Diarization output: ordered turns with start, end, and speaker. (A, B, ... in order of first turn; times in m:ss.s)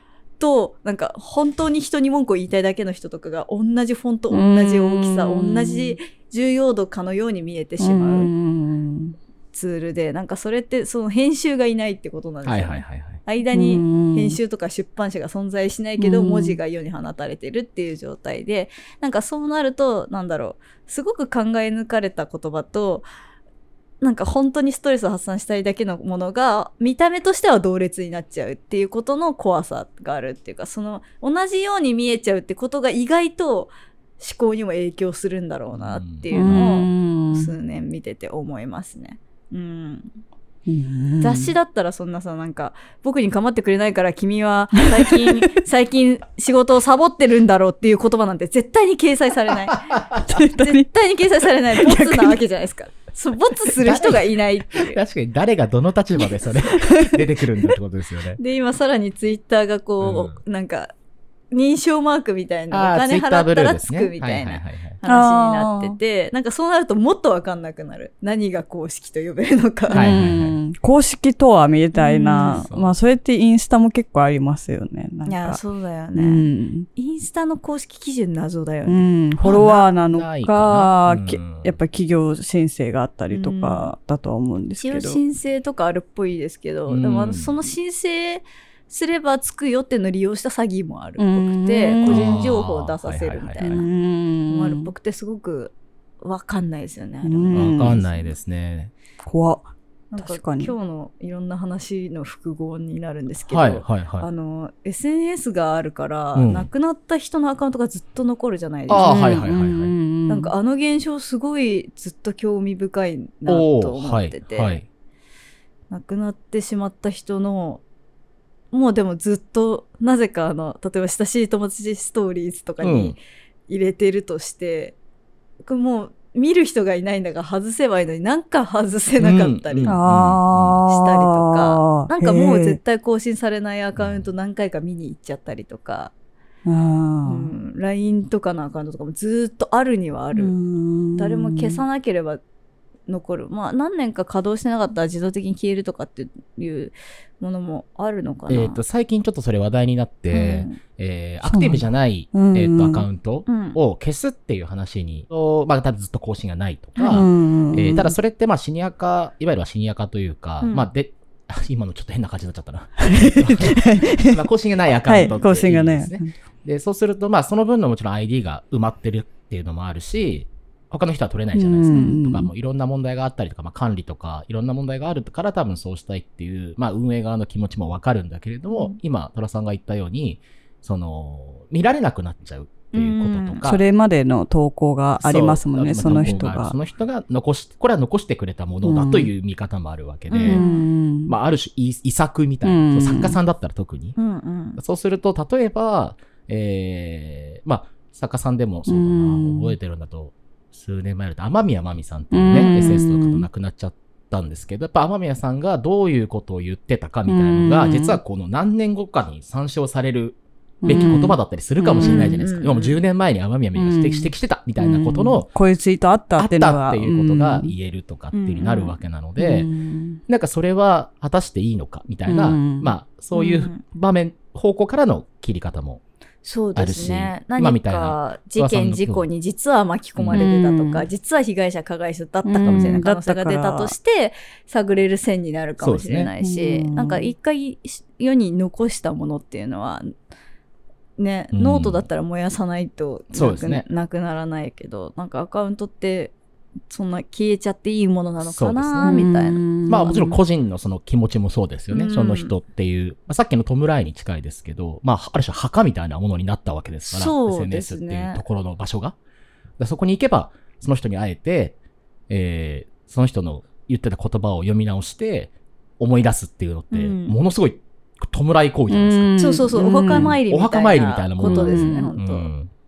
0:00.4-0:08.3 A
0:04.3-0:06.0 B
0:07.8-0:09.2 B
0:09.5-0:23.1 A
0:12.4-0:13.2 C
0:13.5-0:14.4 B
0:16.0-0:16.6 B
0:24.0-0:40.1 A
0:35.7-0:36.8 C
0:36.3-0:37.5 B
0:40.7-0:41.5 B
0:41.2-0:49.8 A
0:44.8-0:45.4 B
0:49.7-0:50.2 C
0:50.3-0:50.9 B
0:50.5-0:55.0 A
0:51.8-0:52.4 B
0:53.8-0:58.4 C
0:56.8-0:57.2 B
0:58.4-1:00.9 A
1:00.0-1:00.4 C
1:01.5-1:10.1 A
1:02.7-1:05.0 C
1:05.1-1:06.0 B
1:09.9-1:15.6 B
1:09.9-1:10.6 C
1:11.9-1:12.7 A
1:12.5-1:13.0 C
1:15.3-1:19.7 A
1:16.2-1:16.9 B
1:18.9-1:25.2 B
1:19.4-1:21.8 C
1:23.3-1:23.9 A
1:24.8-1:33.8 A
1:26.9-1:27.6 C
1:31.2-1:32.4 B
1:32.0-1:33.8 C
1:33.6-1:34.9 B
1:34.5-1:38.2 A
1:37.2-1:38.0 B
1:37.5-1:38.9 C
1:39.2-1:40.7 B
1:40.1-1:49.4 A
1:43.5-1:44.3 C
1:46.4-1:46.7 C
1:48.9-1:49.9 C
1:48.9-1:50.5 B
1:50.3-1:54.8 A
1:53.5-1:54.8 C
1:55.9-1:57.8 A
1:58.7-2:05.0 A
2:02.8-2:03.2 C
2:05.6-2:10.0 A
2:09.2-2:10.8 C
2:09.9-2:12.8 B
2:10.9-2:16.1 A
2:14.0-2:14.3 C
2:16.7-2:17.5 B
2:17.3-2:20.6 A
2:20.3-2:21.8 B
2:21.2-2:22.4 A
2:23.1-2:28.8 A
2:28.5-3:03.8 C
2:30.3-2:30.8 A
2:31.4-2:33.1 B
2:33.5-2:33.8 A
2:37.1-2:38.2 B
2:40.6-2:40.9 A
2:43.0-2:44.4 B
2:45.1-2:46.3 B
2:51.5-2:52.5 B
2:58.7-2:59.0 A
3:02.9-3:03.7 A
3:03.6-3:06.8 B
3:05.2-3:10.6 C
3:08.8-3:09.3 B
3:10.3-3:10.9 A
3:10.4-3:11.4 B
3:11.3-3:14.2 C
3:12.6-3:13.4 B
3:14.2-3:14.8 A
3:14.8-3:35.5 C
3:18.9-3:19.8 B
3:22.3-3:23.5 B
3:27.3-3:28.2 B
3:30.8-3:32.4 B
3:32.0-3:33.0 A
3:33.8-3:37.7 B
3:36.4-3:39.7 C
3:38.3-3:38.9 A
3:39.4-3:40.2 B
3:40.3-3:46.0 C
3:42.3-3:42.9 B
3:43.3-3:43.8 A
3:46.4-4:00.1 A
3:46.8-3:49.3 C
3:50.2-3:50.5 C
3:50.3-3:51.1 B
3:52.5-3:53.9 B
3:52.6-3:53.0 C
3:55.8-3:56.3 C
3:56.4-3:57.3 B
4:01.2-4:06.3 A
4:01.5-4:02.0 C
4:03.3-4:03.8 C
4:06.9-4:09.6 A
4:08.4-4:09.2 C
4:09.0-4:10.4 B
4:09.9-4:19.2 C
4:11.9-4:12.5 A
4:17.1-4:18.4 A
4:19.8-4:21.8 C
4:22.3-4:29.4 C
4:26.9-4:27.4 A
4:28.9-4:30.3 B
4:29.4-4:32.5 A
4:30.1-4:32.7 C
4:31.4-4:32.1 B